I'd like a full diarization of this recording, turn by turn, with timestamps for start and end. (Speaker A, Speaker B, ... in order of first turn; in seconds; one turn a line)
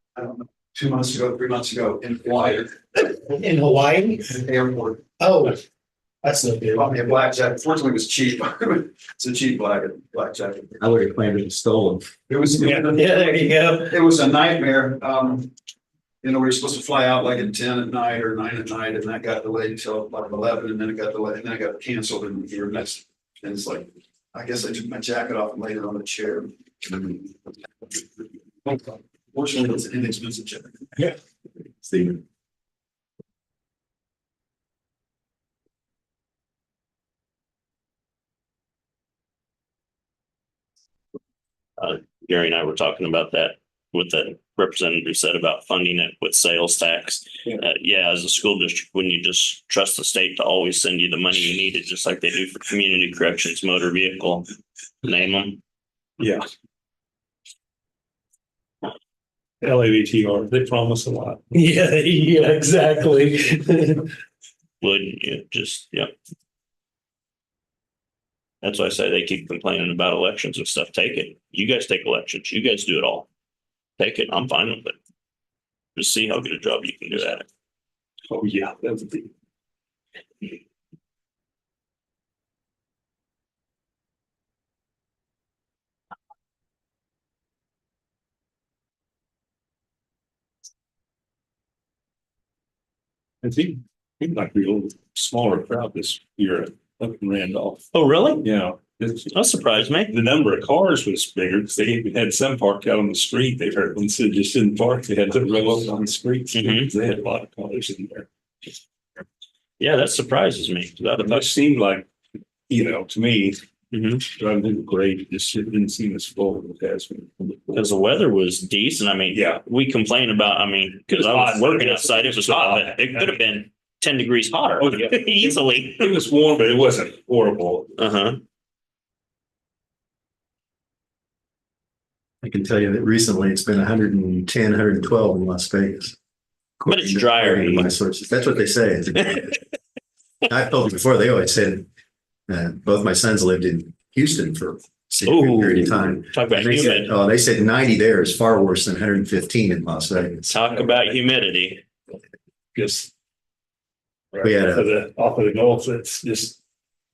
Speaker A: 0.1-3.2
Speaker B: 3.3-4.3
Speaker A: 4.3-5.1
Speaker B: 5.2-5.6
Speaker B: 6.2-7.1
Speaker A: 6.7-10.8
Speaker C: 10.8-12.1
Speaker A: 12.3-15.5
Speaker B: 12.6-13.9
Speaker A: 16.2-27.3
Speaker A: 28.6-30.8
Speaker C: 31.9-32.2
Speaker D: 41.8-54.5
Speaker D: 55.0-55.6
Speaker E: 56.2-56.4
Speaker E: 59.6-61.4
Speaker B: 61.5-64.1
Speaker D: 64.8-66.1
Speaker D: 68.6-73.3
Speaker D: 74.0-75.0
Speaker D: 76.0-77.5
Speaker E: 78.3-79.3
Speaker E: 93.4-97.8
Speaker D: 97.9-98.5
Speaker E: 98.4-99.4
Speaker D: 99.3-100.1
Speaker E: 100.1-108.3
Speaker D: 106.5-106.9
Speaker D: 109.8-111.5
Speaker E: 111.2-112.1
Speaker E: 112.7-113.6
Speaker D: 113.9-114.2
Speaker E: 114.3-117.8
Speaker D: 117.7-126.2
Speaker E: 119.3-119.6
Speaker E: 121.1-123.3
Speaker E: 124.8-127.9
Speaker D: 128.0-128.4
Speaker C: 132.4-136.1
Speaker C: 136.8-139.6
Speaker D: 136.8-137.9
Speaker C: 140.5-141.9
Speaker C: 142.5-150.5
Speaker D: 145.2-147.1
Speaker D: 150.4-151.8
Speaker E: 152.7-153.1
Speaker E: 154.3-156.6
Speaker C: 154.4-154.9